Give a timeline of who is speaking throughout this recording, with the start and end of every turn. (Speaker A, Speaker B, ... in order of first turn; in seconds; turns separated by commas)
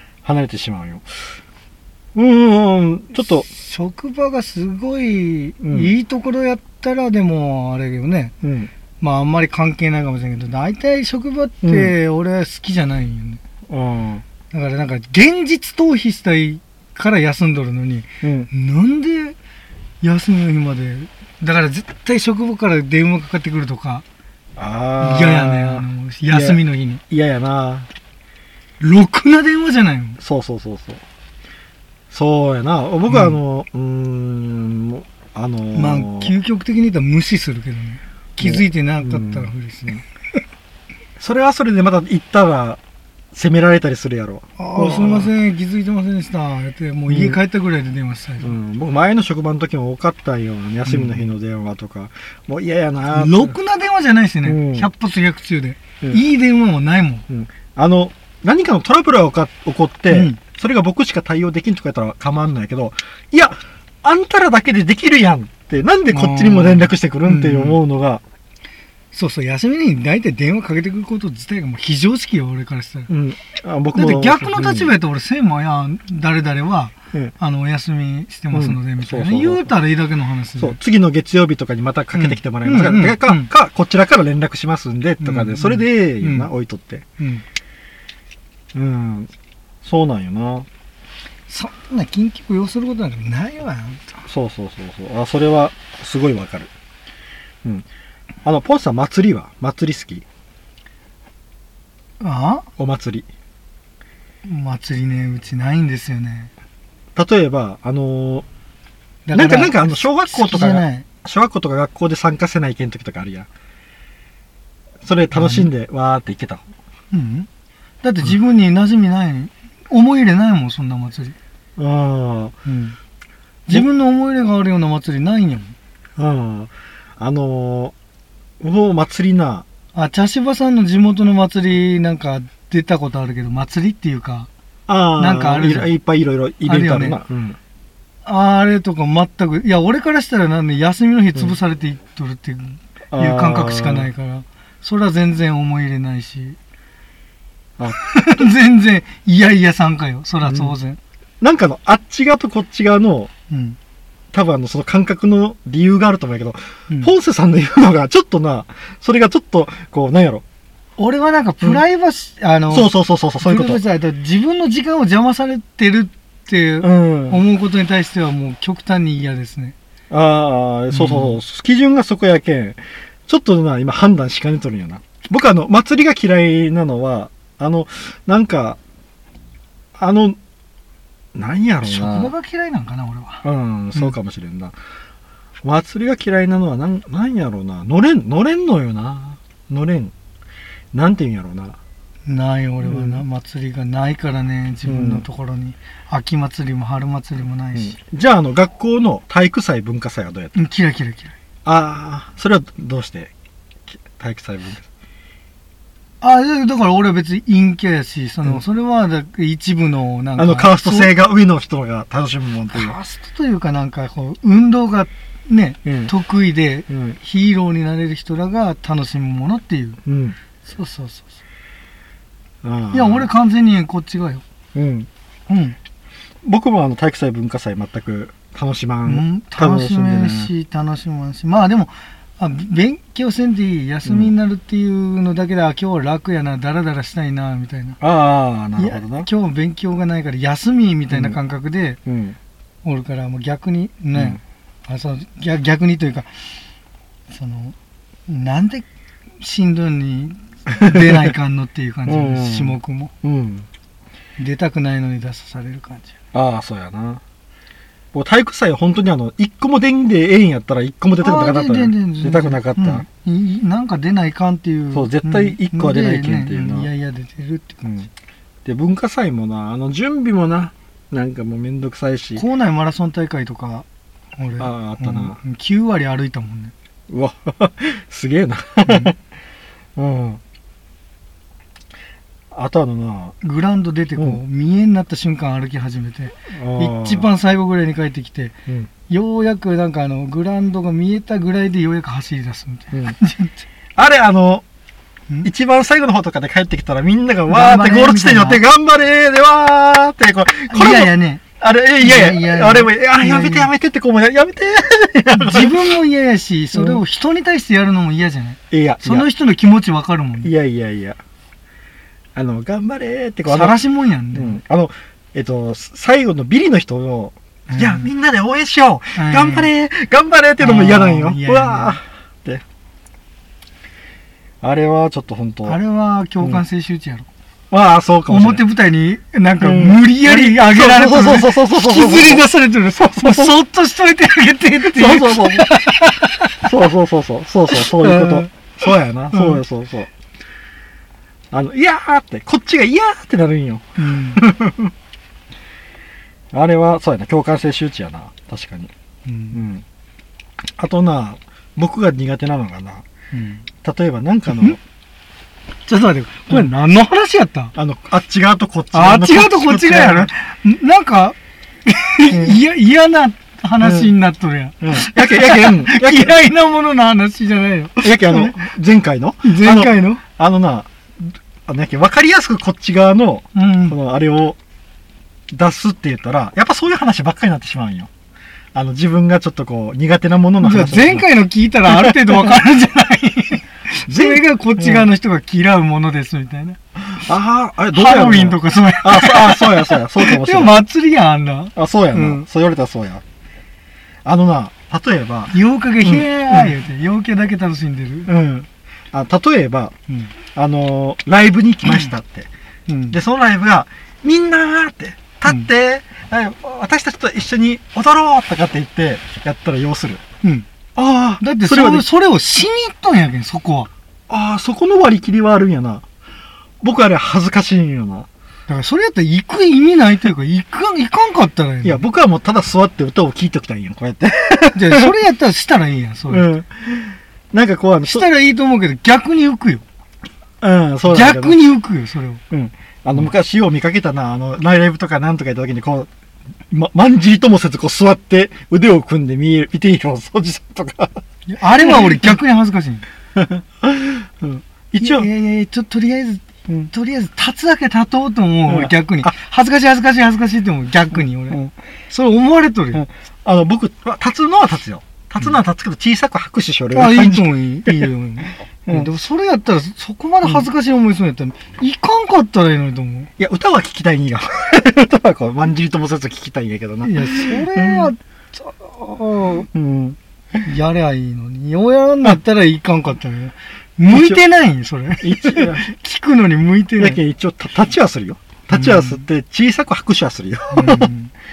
Speaker A: 0.2-1.2, Speaker A: 2.1-3.5, Speaker B: 3.2-8.3, Speaker A: 5.6-5.9, Speaker A: 8.4-8.7, Speaker B: 9.0-13.4, Speaker A: 11.6-11.9, Speaker A: 13.7-14.2, Speaker B: 14.5-19.4, Speaker A: 18.2-18.5, Speaker B: 20.0-24.0, Speaker A: 24.6-27.9, Speaker B: 25.0-27.0, Speaker B: 28.8-30.2, Speaker A: 30.2-31.0, Speaker A: 32.1-36.3, Speaker B: 33.1-33.4, Speaker B: 35.7-40.1, Speaker A: 38.4-40.0, Speaker A: 41.2-42.8, Speaker A: 43.3-45.3, Speaker B: 44.6-48.5, Speaker A: 47.1-47.4, Speaker A: 48.4-53.5, Speaker B: 50.9-51.3, Speaker B: 53.1-57.2, Speaker A: 54.4-54.9, Speaker A: 57.3-68.2, Speaker B: 60.1-60.4, Speaker B: 66.1-67.8, Speaker B: 69.1-73.1, Speaker A: 73.1-74.9, Speaker B: 73.9-80.8, Speaker A: 78.5-79.7, Speaker A: 80.6-87.0, Speaker B: 82.1-83.5, Speaker B: 85.2-86.5, Speaker A: 88.7-89.3, Speaker A: 89.8-90.7, Speaker B: 91.5-94.2, Speaker A: 94.2-96.7, Speaker A: 98.4-100.2, Speaker B: 102.2-102.7, Speaker A: 102.8-103.3, Speaker B: 104.4-106.5, Speaker A: 107.2-108.5, Speaker B: 109.2-111.0, Speaker A: 109.3-113.5, Speaker A: 115.0-116.6, Speaker B: 115.3-115.7, Speaker B: 117.1-117.5, Speaker B: 118.0-121.3, Speaker A: 121.8-122.5, Speaker B: 122.6-123.0, Speaker B: 123.7-125.7, Speaker A: 126.2-127.9, Speaker A: 128.6-129.6, Speaker B: 129.9-134.5, Speaker A: 134.9-137.6, Speaker B: 135.2-135.9, Speaker B: 136.6-137.2, Speaker B: 138.2-146.6, Speaker A: 143.1-144.1, Speaker B: 147.9-151.0, Speaker A: 150.4-150.7, Speaker A: 151.4-153.3, Speaker B: 153.5-153.8, Speaker A: 154.3-160.4, Speaker B: 161.0-169.7, Speaker A: 162.7-163.8, Speaker A: 166.8-167.4, Speaker A: 170.1-178.8, Speaker B: 170.9-171.4, Speaker A: 179.9-180.4, Speaker A: 181.3-182.3, Speaker B: 181.8-183.4, Speaker A: 183.4-184.8, Speaker A: 185.6-190.1, Speaker A: 190.9-191.8, Speaker B: 192.2-197.9, Speaker A: 192.8-193.2, Speaker A: 194.8-195.2, Speaker A: 197.7-200.6, Speaker B: 200.5-201.3, Speaker A: 201.7-203.3, Speaker A: 203.9-204.9, Speaker B: 206.2-211.1, Speaker A: 210.4-213.0, Speaker B: 212.7-220.0, Speaker A: 215.8-216.1, Speaker A: 216.9-217.2, Speaker A: 220.0-220.4, Speaker B: 220.6-221.3, Speaker A: 222.6-223.3, Speaker B: 222.9-224.4, Speaker A: 224.7-225.1, Speaker B: 225.5-225.8, Speaker A: 226.4-230.5, Speaker B: 229.0-238.0, Speaker A: 234.0-234.3, Speaker A: 238.0-239.3, Speaker B: 238.8-242.0, Speaker A: 241.1-241.4, Speaker A: 242.1-242.4, Speaker B: 242.8-246.5, Speaker A: 244.1-244.4, Speaker B: 247.3-247.7, Speaker B: 248.3-248.8, Speaker B: 249.4-253.1, Speaker A: 250.9-251.2, Speaker A: 252.1-253.7, Speaker B: 254.4-256.1, Speaker A: 256.3-257.2, Speaker A: 258.1-263.0, Speaker B: 261.2-268.0, Speaker A: 264.9-266.9, Speaker A: 268.6-272.4, Speaker B: 272.4-276.7, Speaker A: 274.6-275.4, Speaker A: 277.1-279.1, Speaker B: 278.8-279.1, Speaker A: 279.9-280.4, Speaker A: 282.5-283.4, Speaker B: 283.4-288.5, Speaker A: 286.5-287.3, Speaker B: 289.1-293.6, Speaker A: 293.9-294.6, Speaker A: 295.4-305.9, Speaker B: 297.5-298.6, Speaker B: 300.7-301.4, Speaker B: 302.0-303.7, Speaker B: 305.3-310.5, Speaker A: 306.7-307.0, Speaker A: 308.7-309.3, Speaker A: 310.4-311.2, Speaker A: 312.3-313.8, Speaker B: 313.5-314.6, Speaker A: 314.3-322.6, Speaker B: 317.7-318.1, Speaker B: 319.1-319.7, Speaker B: 320.6-322.0, Speaker A: 324.6-325.8, Speaker B: 325.6-327.3, Speaker A: 327.7-328.6, Speaker B: 328.3-336.7, Speaker A: 329.6-333.6, Speaker A: 334.8-335.8, Speaker A: 336.6-340.1, Speaker B: 337.7-339.6, Speaker A: 341.5-344.9, Speaker B: 344.0-344.4, Speaker A: 346.5-348.9, Speaker B: 349.2-349.6, Speaker A: 349.5-349.8, Speaker A: 350.8-353.0, Speaker B: 353.3-353.7, Speaker A: 353.8-354.8, Speaker B: 354.5-354.8, Speaker B: 355.9-357.7, Speaker A: 357.7-360.3, Speaker B: 358.9-368.7, Speaker A: 362.3-362.6, Speaker A: 363.8-364.1, Speaker A: 364.8-366.4, Speaker A: 368.0-374.6, Speaker B: 369.4-370.2, Speaker B: 373.5-373.9, Speaker A: 375.5-378.1, Speaker A: 378.7-381.3, Speaker B: 380.6-386.8, Speaker A: 381.9-382.6, Speaker A: 384.1-385.1, Speaker A: 387.2-390.9, Speaker B: 387.9-392.4, Speaker A: 391.7-393.2, Speaker A: 394.2-396.7, Speaker B: 395.5-398.3, Speaker A: 398.2-399.9, Speaker A: 400.5-402.5, Speaker B: 402.9-403.2, Speaker A: 403.1-410.2, Speaker A: 410.9-412.1, Speaker B: 411.4-413.9, Speaker A: 414.3-416.0, Speaker A: 416.8-418.3, Speaker B: 418.7-422.0, Speaker A: 421.8-425.1, Speaker B: 424.7-426.5, Speaker A: 426.3-428.3, Speaker B: 428.0-429.8, Speaker A: 430.6-431.8, Speaker B: 431.0-432.4, Speaker A: 432.5-436.1, Speaker A: 436.7-442.4, Speaker B: 441.5-443.0, Speaker A: 443.3-445.3, Speaker B: 445.0-453.0, Speaker A: 448.7-449.3, Speaker A: 451.1-451.7, Speaker A: 452.9-458.1, Speaker B: 456.9-463.3, Speaker A: 458.9-459.1, Speaker A: 463.4-468.1, Speaker B: 467.0-469.7, Speaker A: 469.7-470.6, Speaker B: 470.6-477.2, Speaker A: 474.1-474.4, Speaker A: 475.2-475.9, Speaker A: 477.0-481.1, Speaker B: 478.7-479.2, Speaker B: 480.7-481.3